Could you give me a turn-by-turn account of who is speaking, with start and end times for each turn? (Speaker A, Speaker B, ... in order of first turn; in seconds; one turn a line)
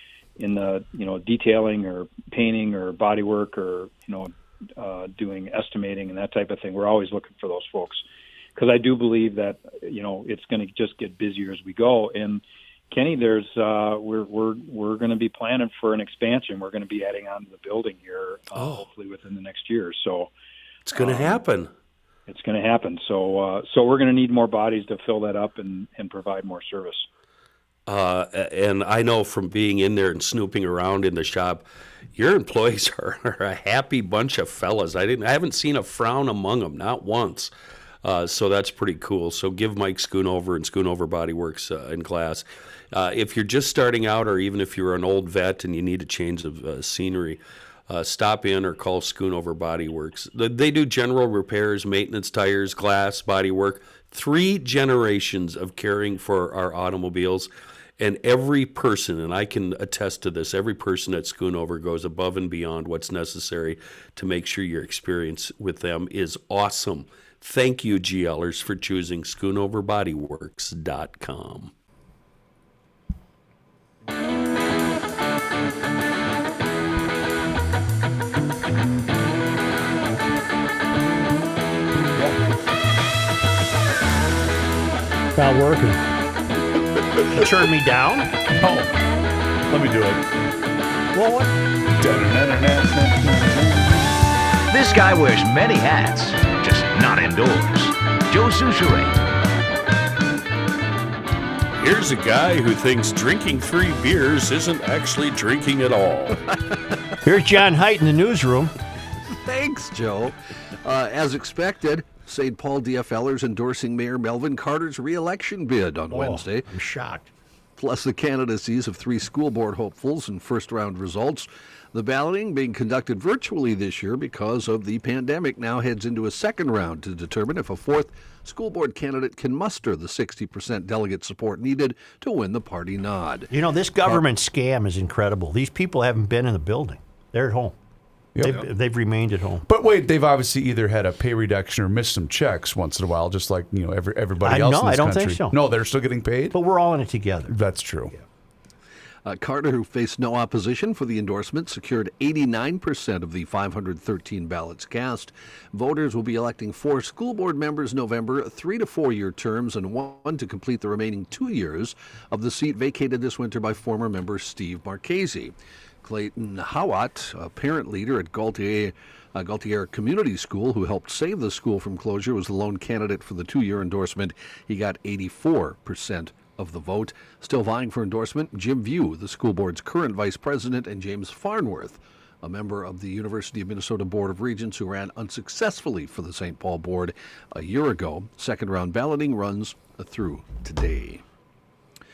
Speaker A: 0.4-8.0
Speaker A: 8.6-20.3
Speaker B: 18.5-18.8
Speaker B: 20.9-21.7
Speaker A: 20.9-21.3
Speaker A: 22.3-27.1
Speaker B: 27.9-31.6
Speaker B: 32.1-37.5
Speaker B: 38.0-71.7
Speaker C: 85.3-86.1
Speaker C: 87.3-88.3
Speaker D: 88.6-89.0
Speaker D: 89.7-90.2
Speaker C: 91.1-91.5
Speaker D: 92.0-94.1
Speaker E: 94.7-99.2
Speaker B: 101.8-106.4
Speaker C: 107.2-108.7
Speaker F: 109.4-116.7
Speaker C: 116.1-117.3
Speaker F: 117.8-133.5
Speaker C: 133.5-137.7
Speaker D: 138.3-138.7
Speaker C: 138.4-139.6
Speaker D: 139.7-146.6
Speaker C: 144.4-145.6
Speaker C: 146.5-147.6
Speaker D: 147.5-148.1
Speaker F: 149.2-191.2